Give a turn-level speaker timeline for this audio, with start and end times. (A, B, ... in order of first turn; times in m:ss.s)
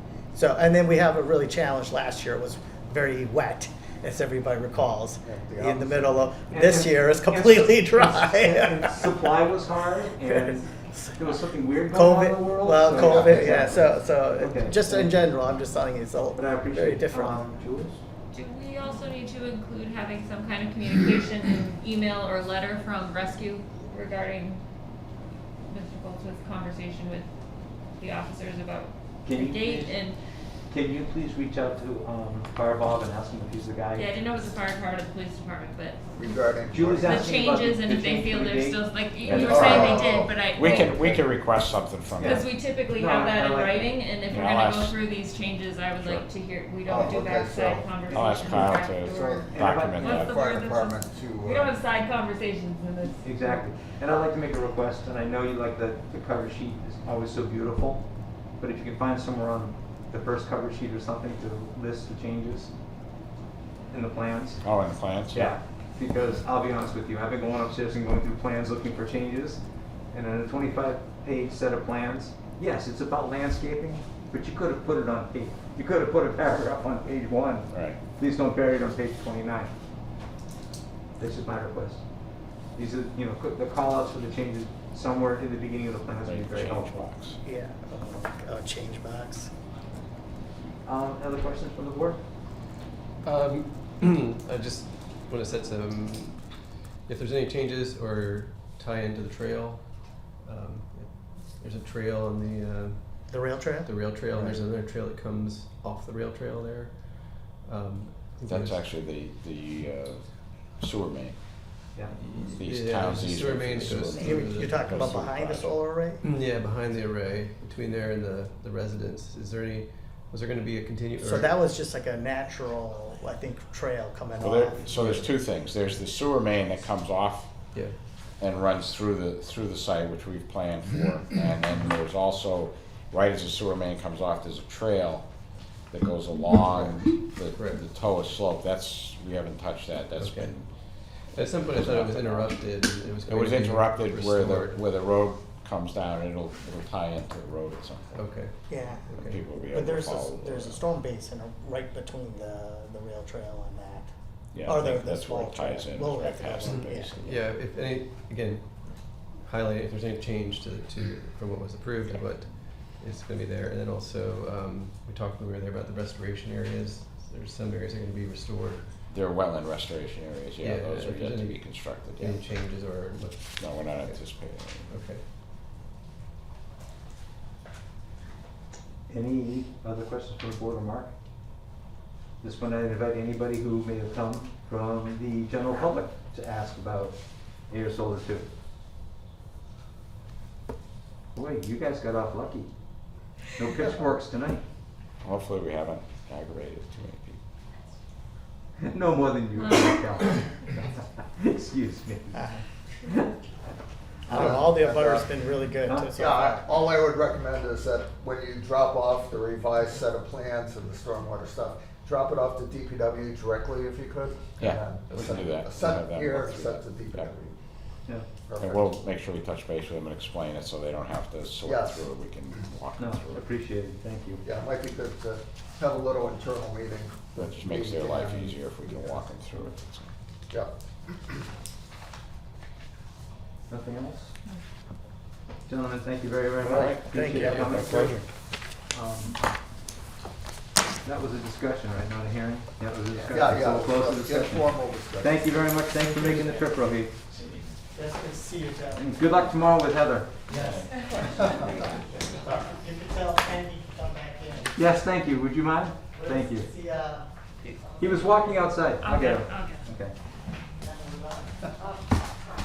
0:00.3-0:09.2 A
0:05.2-0:06.3 B
0:06.5-0:15.3 C
0:10.3-0:11.0 A
0:11.9-0:17.4 A
0:12.9-0:13.9 B
0:16.3-0:18.0 C
0:18.3-0:24.6 D
0:25.7-0:27.3 D
0:28.0-0:30.2 D
0:29.2-0:30.0 C
0:30.7-0:34.2 C
0:33.9-0:36.1 D
0:36.1-0:37.4 B
0:36.7-0:40.1 C
0:37.0-0:41.1 D
0:39.2-0:40.0 E
0:39.4-0:41.2 B
0:40.6-0:42.5 E
0:40.7-0:41.2 C
0:42.2-0:44.0 C
0:42.2-0:53.6 D
0:44.3-0:45.0 E
0:46.0-0:46.2 E
0:46.8-0:51.8 B
0:48.1-0:50.3 E
0:49.4-0:50.2 C
0:53.2-0:58.0 C
0:58.6-1:02.7 C
1:03.9-1:04.7 C
1:04.6-1:05.5 E
1:05.3-1:19.7 C
1:17.7-1:18.0 E
1:21.2-1:22.0 C
1:22.7-1:27.0 C
1:26.2-1:27.4 E
1:27.4-1:29.5 A
1:30.8-1:32.2 C
1:33.2-1:48.8 F
1:43.3-1:43.9 A
1:48.5-1:51.4 E
1:52.2-1:55.0 F
1:52.2-1:55.8 E
1:54.2-1:56.2 A
1:56.2-2:01.5 F
2:01.2-2:04.8 A
2:04.4-2:07.5 E
2:05.0-2:05.3 F
2:08.4-2:15.3 E
2:15.9-2:20.7 E
2:17.6-2:17.8 F
2:20.2-2:20.5 F
2:21.3-2:24.8 F
2:21.6-2:22.5 E
2:23.2-2:28.1 E
2:28.1-2:29.4 F
2:28.7-2:29.0 A
2:29.1-2:30.8 E
2:29.6-2:34.1 A
2:34.5-2:37.4 E
2:34.6-2:37.4 A
2:36.7-2:48.8 F
2:49.1-2:52.4 E
2:50.6-2:54.2 F
2:53.6-2:54.9 E
2:54.8-2:55.2 F
2:59.1-3:01.1 C
3:02.4-3:07.2 C
3:07.7-3:08.5 C
3:11.3-3:12.7 C
3:13.5-3:14.6 C
3:15.2-3:17.4 E
3:18.8-3:22.5 C
3:19.6-3:20.0 D
3:22.3-3:22.6 A
3:24.3-3:26.7 A
3:24.3-3:25.3 B
3:25.8-3:26.1 C
3:26.2-3:37.5 B
3:34.6-3:37.4 E
3:38.5-3:38.9 B
3:38.6-3:43.5 E
3:41.6-3:42.0 B
3:43.0-3:44.4 C
3:44.4-3:49.2 B
3:47.4-3:50.1 E
3:53.7-3:54.3 C
3:55.7-3:58.2 C
3:56.6-3:57.5 E
3:56.7-3:58.3 A
3:58.9-3:59.4 C
4:01.0-4:07.1 C
4:03.2-4:03.5 A
4:03.2-4:05.5 B
4:06.2-4:06.5 A
4:07.9-4:09.7 A
4:09.0-4:10.3 C
4:10.5-4:11.5 A
4:10.5-4:10.8 E
4:11.4-4:11.7 B
4:12.3-4:14.8 A
4:14.7-4:16.7 C
4:16.1-4:17.3 A
4:17.8-4:18.7 A
4:18.0-4:20.1 C
4:19.0-4:19.8 D
4:20.8-4:21.9 A